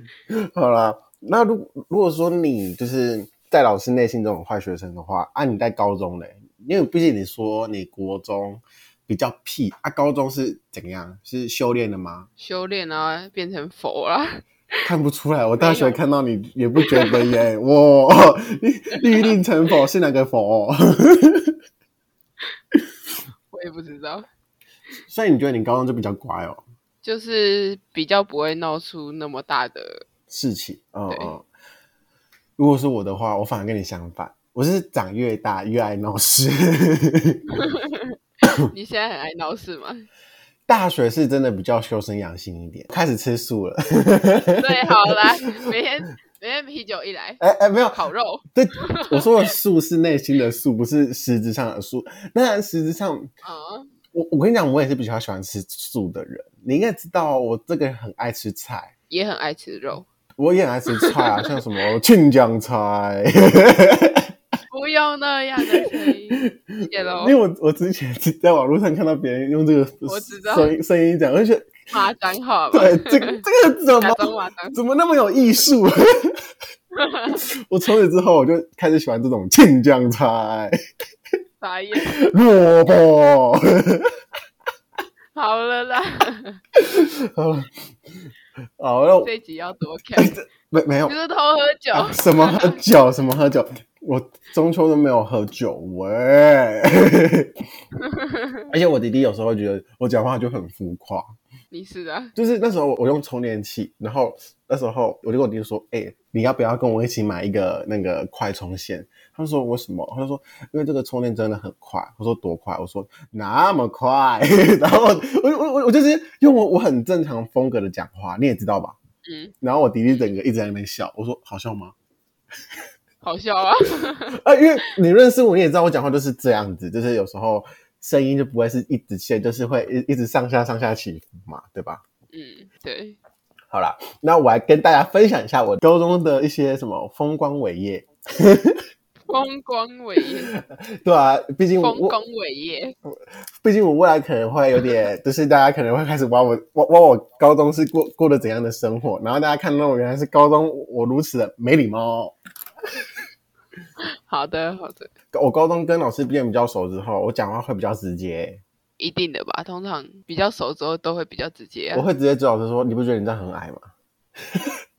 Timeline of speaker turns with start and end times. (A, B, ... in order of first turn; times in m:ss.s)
0:00.3-0:12.3 A
0:12.4-0:14.8 B
0:14.8-0:21.5 A
0:15.6-0:16.0 B
0:16.8-0:17.3 B
0:19.0-0:19.3 B
0:23.5-0:24.3 B
0:25.1-0:26.6 A
0:27.0-0:30.0 B
0:30.3-0:31.4 A
0:31.1-0:31.3 B
0:32.6-0:37.4 A
0:37.6-0:38.1 B
0:38.7-0:40.1 B
0:40.7-0:45.6 A
0:44.6-0:47.4 B
0:47.4-0:48.0 A
0:47.9-0:49.3 B
0:48.5-0:53.3 A
0:53.4-0:53.9 B
0:54.1-0:58.9 A
0:59.1-1:00.0 B
1:00.4-1:04.3 A
1:00.9-1:01.6 B
1:04.7-1:07.4 B
1:05.6-1:11.8 A
1:10.0-1:10.7 B
1:11.9-1:13.4 B
1:12.7-1:16.3 A
1:14.0-1:14.8 B
1:16.9-1:17.4 B
1:17.6-1:20.8 A
1:21.6-1:22.2 B
1:22.0-1:24.1 A
1:25.3-1:26.6 B
1:26.8-1:27.8 A
1:28.8-1:29.3 A
1:29.2-1:30.3 B
1:30.2-1:31.1 A
1:31.0-1:32.8 B
1:31.9-1:37.5 A
1:38.0-1:38.6 B
1:38.7-1:41.2 A
1:41.7-1:42.3 B
1:42.4-1:59.0 A
1:59.2-1:59.5 B
1:59.6-2:01.9 A
2:03.2-2:04.3 B
2:04.3-2:12.0 A
2:12.3-2:13.2 B
2:13.7-2:18.8 A
2:19.3-2:20.5 B
2:20.2-2:22.1 A
2:21.8-2:23.0 B
2:23.1-2:32.4 A
2:34.0-2:35.1 B
2:35.3-2:38.6 A
2:39.0-2:42.0 B
2:41.9-2:43.9 A
2:44.5-2:44.7 A